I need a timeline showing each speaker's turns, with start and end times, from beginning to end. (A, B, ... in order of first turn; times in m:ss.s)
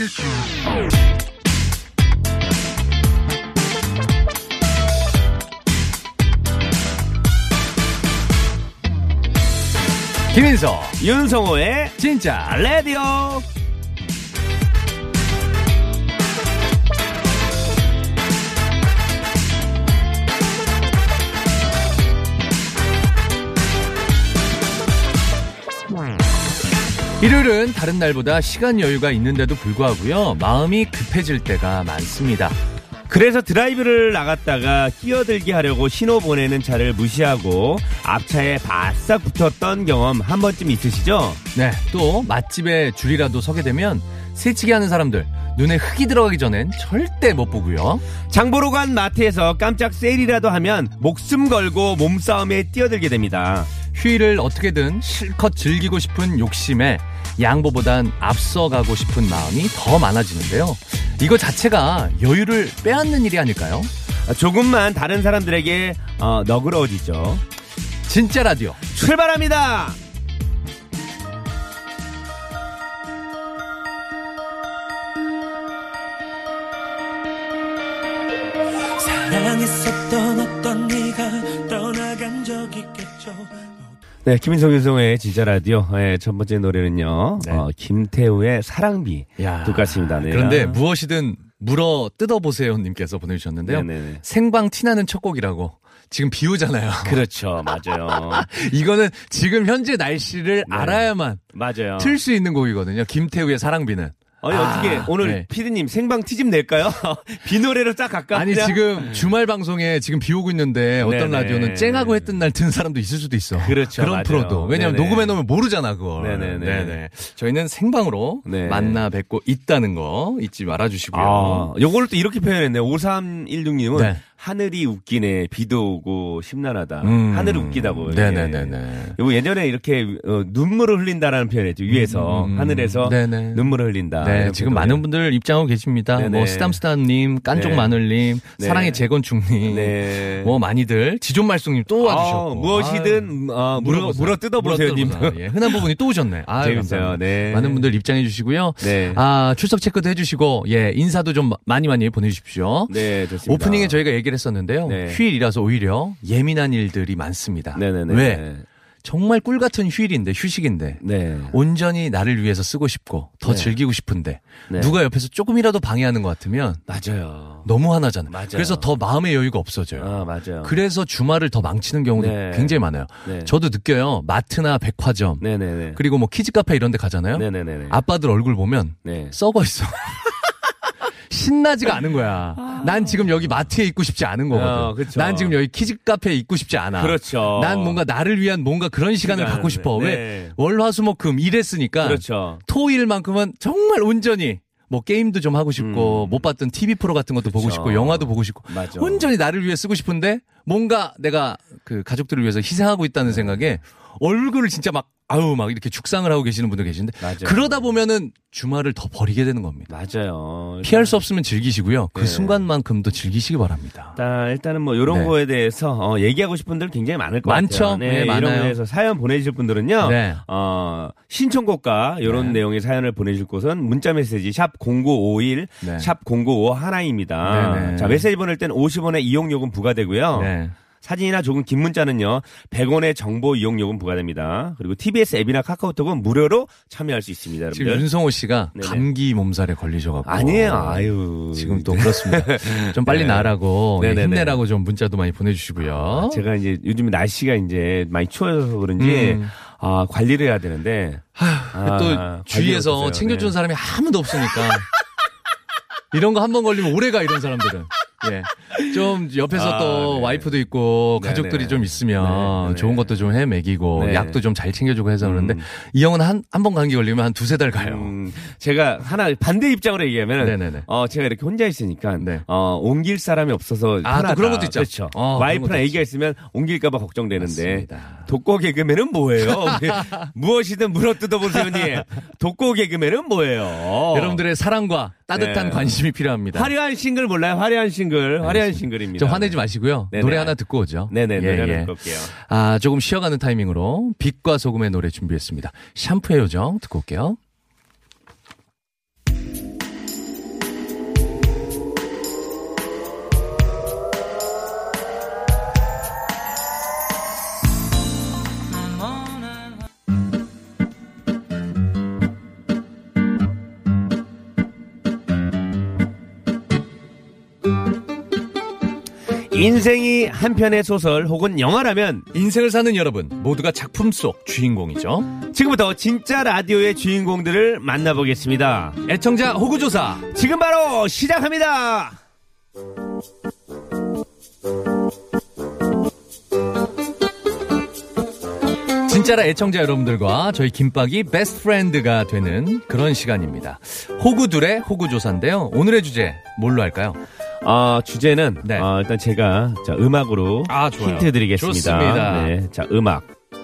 0:10.3-0:11.0 A
0:11.0-0:12.0 B
0:12.0-0:12.6 A
0:12.5-0:13.4 B
0:27.2-0:32.5 A
0:33.1-0:41.4 B
0:41.5-0:48.0 A
0:48.3-0:53.7 B
0:53.9-1:03.9 A
1:04.3-1:07.4 B
1:08.0-1:08.8 A
1:08.9-1:10.0 B
1:19.0-1:23.7 C
1:24.2-1:30.8 B
1:27.4-1:27.6 A
1:29.4-1:37.2 A
1:33.6-1:34.2 B
1:37.0-1:38.5 B
1:38.1-1:41.4 A
1:40.7-1:42.2 B
1:42.0-1:45.5 A
1:44.4-1:49.2 B
1:48.3-2:01.7 A
1:51.0-1:52.3 B
1:53.6-1:55.4 B
1:56.2-1:57.0 B
1:58.4-1:59.0 B
2:01.1-2:15.0 B
2:03.9-2:04.2 A
2:07.0-2:09.2 A
2:11.9-2:38.4 A
2:16.1-2:16.8 B
2:17.5-2:17.9 B
2:18.6-2:19.0 B
2:19.6-2:20.5 B
2:22.0-2:25.8 B
2:26.6-2:27.8 B
2:28.8-2:29.2 B
2:32.9-2:34.0 B
2:34.8-2:35.2 B
2:37.7-2:38.6 B
2:39.0-2:46.8 A
2:41.0-2:41.6 B
2:43.4-2:43.7 B
2:44.7-2:44.9 B
2:46.9-2:47.7 B
2:47.6-2:55.4 A
2:48.3-2:48.9 B
2:50.0-2:50.8 B
2:52.2-2:53.5 B
2:55.4-2:56.0 B
2:55.9-3:00.5 A
2:57.3-2:58.0 B
2:59.0-2:59.3 B
3:01.3-3:29.9 A
3:04.5-3:05.6 B
3:07.0-3:08.0 B
3:09.2-3:10.5 B
3:12.0-3:12.6 B
3:15.8-3:16.4 B
3:17.4-3:19.3 B
3:23.3-3:23.6 B
3:27.2-3:27.6 B
3:29.9-3:31.2 B
3:30.8-3:34.1 A
3:32.1-3:32.6 B
3:34.2-3:58.0 B
3:35.1-3:35.3 A
3:37.4-3:38.8 A
3:40.0-3:40.4 A
3:42.2-3:42.6 A
3:45.8-3:46.1 A
3:47.4-3:48.2 A
3:50.3-3:50.7 A
3:57.7-4:06.4 A
3:58.7-3:59.0 B
4:00.2-4:04.6 B
4:05.9-4:13.5 B
4:09.0-4:09.5 A
4:11.4-4:14.9 A
4:16.1-4:28.1 A
4:19.5-4:20.5 B
4:21.2-4:23.1 B
4:23.9-4:24.4 B
4:25.2-4:25.6 B
4:27.8-4:44.4 B
4:30.4-4:30.8 A
4:32.2-4:32.4 A
4:34.0-4:36.0 A
4:37.4-4:38.3 A
4:39.4-4:40.3 A
4:41.5-4:42.0 A
4:44.1-4:46.7 A
4:45.3-4:46.0 B
4:46.5-4:49.6 B
4:48.4-4:57.4 A
4:50.1-4:50.6 B
4:51.1-4:52.3 B
5:19.5-5:22.2 B
5:22.3-5:25.3 A
5:25.5-5:29.0 B
5:29.0-5:30.3 A
5:30.3-5:32.2 B
5:39.0-5:47.2 A
5:47.6-5:53.3 B
5:50.7-5:52.5 A